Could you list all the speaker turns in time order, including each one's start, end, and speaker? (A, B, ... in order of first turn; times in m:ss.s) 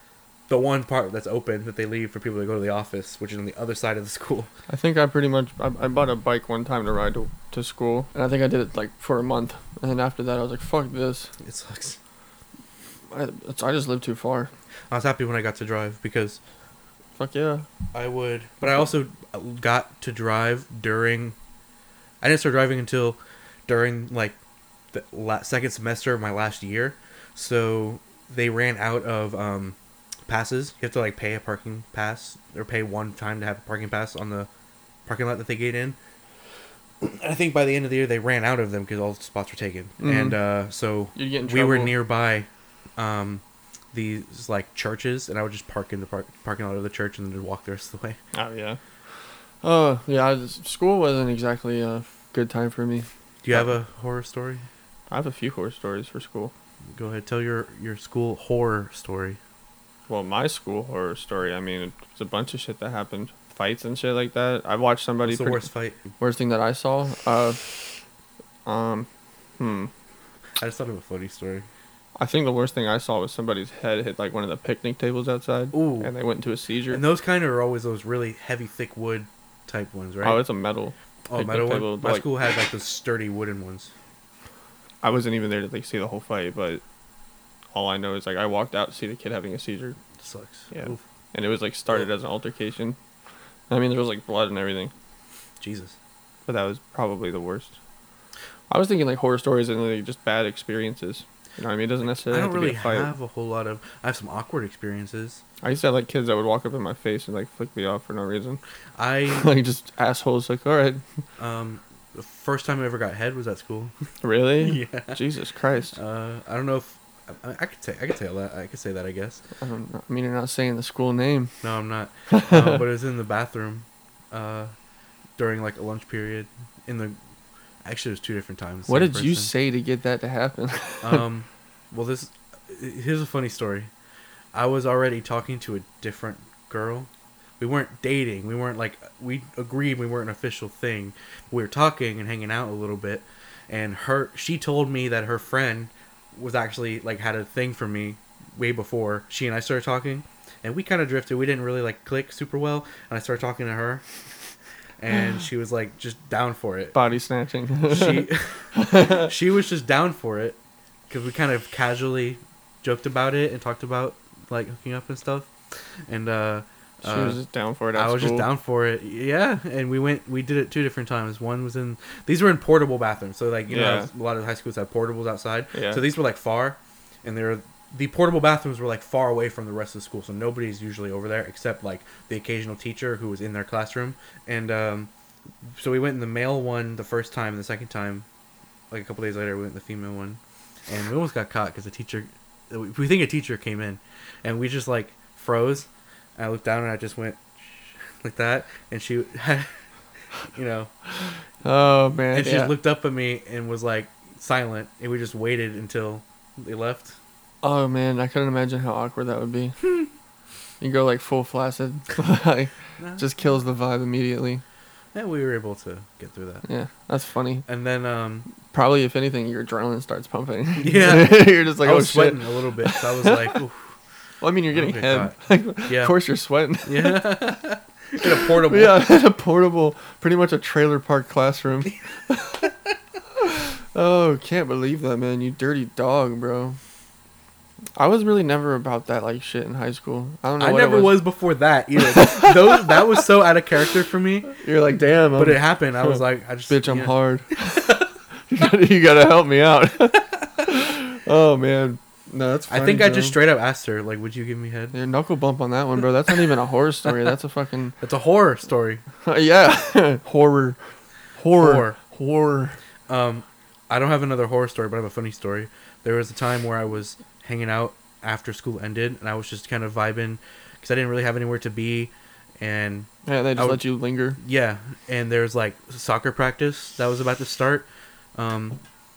0:00.5-0:04.5 A
0:04.7-0:11.3 B
0:11.4-0:12.0 A
0:13.1-0:14.5 B
0:14.9-0:16.4 A
0:17.2-0:17.6 B
0:17.9-0:21.4 A
0:22.2-0:24.4 A
0:24.9-0:29.8 A
0:30.3-0:34.5 A
0:35.0-0:36.0 A
0:37.0-0:48.2 A
0:40.0-0:40.4 B
0:41.1-0:42.0 B
0:48.3-0:48.8 B
0:49.6-0:53.7 B
0:53.4-0:54.7 A
0:55.1-0:56.5 B
0:56.9-0:59.4 A
1:00.1-1:05.7 B
1:05.2-1:06.0 A
1:06.2-1:07.8 B
1:08.6-1:09.1 B
1:09.6-1:09.9 B
1:10.6-1:11.7 A
1:12.2-1:17.0 B
1:15.7-1:16.1 A
1:16.9-1:20.4 A
1:20.2-1:22.3 B
1:21.3-1:23.9 A
1:25.0-1:26.8 B
1:27.7-1:30.0 B
1:30.2-1:31.0 A
1:30.7-1:33.0 B
1:33.7-1:34.9 B
1:35.6-1:36.0 A
1:36.5-1:37.8 B
1:38.7-1:43.1 B
1:42.0-1:45.4 A
1:45.6-1:48.6 B
1:49.0-1:49.5 A
1:49.3-1:51.0 B
1:51.4-1:53.9 A
1:54.2-1:56.0 B
1:54.6-1:55.2 A
1:55.9-1:59.4 A
1:59.6-2:01.5 B
2:01.6-2:04.7 A
2:02.3-2:02.8 B
2:05.4-2:07.2 A
2:07.8-2:09.5 A
2:08.9-2:11.2 B
2:11.0-2:13.9 A
2:14.5-2:34.0 A
2:35.0-2:37.0 A
2:36.9-2:39.3 B
2:37.9-2:40.6 A
2:41.1-2:45.5 A
2:46.1-2:47.4 A
2:47.0-2:48.5 B
2:47.9-3:05.1 A
2:53.7-2:54.1 B
2:55.7-2:56.0 B
3:05.6-3:08.2 A
3:08.9-3:19.8 A
3:20.5-3:20.9 A
3:21.6-3:22.7 B
3:22.3-3:27.2 A
3:27.6-3:29.8 B
3:30.8-3:34.6 B
3:33.0-3:33.2 A
3:35.1-3:36.6 A
3:36.6-3:37.6 B
3:37.7-3:38.5 A
3:38.6-3:43.6 B
3:40.8-3:43.9 A
3:44.4-3:47.2 B
3:44.7-3:46.2 A
3:46.8-3:49.0 A
3:48.2-3:52.7 B
3:53.9-3:56.8 B
3:58.0-4:01.2 B
4:00.6-4:04.6 A
4:02.0-4:03.2 B
4:04.5-4:13.4 B
4:05.4-4:07.1 A
4:12.7-4:14.9 A
4:14.9-4:18.0 B
4:18.0-4:19.0 A
4:19.2-4:20.8 B
4:21.4-4:22.8 B
4:21.6-4:22.0 A
4:23.1-4:33.8 A
4:33.2-4:34.4 B
4:34.4-4:38.8 A